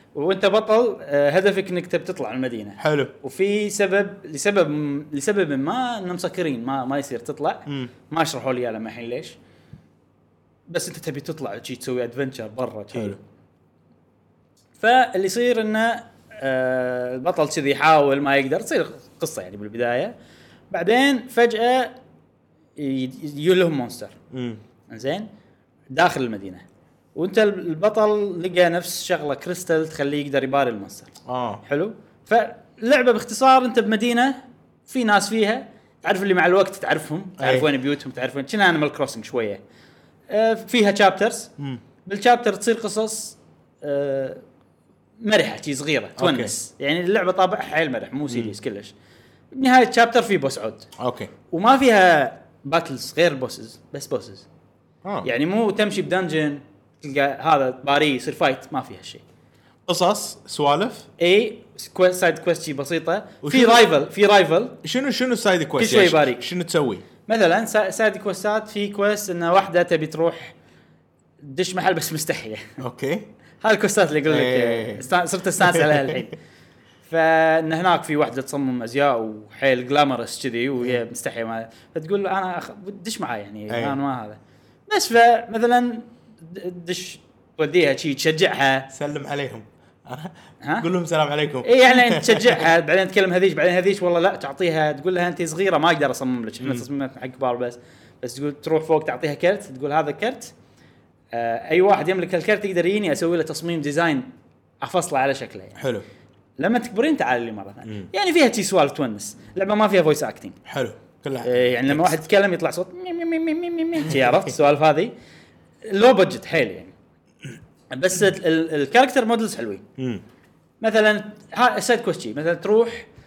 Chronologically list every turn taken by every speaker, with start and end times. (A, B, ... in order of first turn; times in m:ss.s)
0:00.2-0:09.4 A
0:02.8-0:03.1 B
0:10.7-0:13.2 A
0:12.9-0:13.2 B
0:14.8-0:20.1 A
0:20.7-0:22.0 A
0:22.8-0:24.2 A
0:24.3-0:24.6 B
0:24.9-0:25.3 A
0:25.9-0:26.6 A
0:27.2-0:31.1 A
0:31.3-0:31.6 B
0:31.6-0:39.6 A
0:37.4-0:37.7 B
0:40.3-0:41.5 A
0:42.0-0:44.4 A
0:45.2-0:48.9 A
0:46.2-0:46.5 B
0:49.5-0:50.9 A
0:51.0-0:51.3 B
0:51.5-0:54.5 A
0:55.2-0:59.2 A
0:59.9-1:01.1 B
1:01.2-1:04.8 A
1:03.4-1:03.9 B
1:04.8-1:07.0 B
1:05.8-1:06.4 A
1:07.3-1:10.6 A
1:11.4-1:12.8 A
1:12.8-1:13.3 B
1:13.6-1:16.4 A
1:14.3-1:15.1 B
1:15.6-1:16.2 B
1:17.0-1:28.9 A
1:23.7-1:24.0 B
1:28.9-1:32.7 B
1:30.6-1:30.9 A
1:31.6-1:40.5 A
1:36.6-1:36.9 B
1:41.3-1:44.3 A
1:44.8-1:45.8 A
1:45.8-1:46.1 B
1:46.6-1:50.6 A
1:50.7-1:52.2 B
1:51.4-1:55.1 A
1:54.1-1:54.5 B
1:55.8-1:56.9 A
1:57.9-1:59.8 A
2:00.0-2:00.2 B
2:00.8-2:03.1 A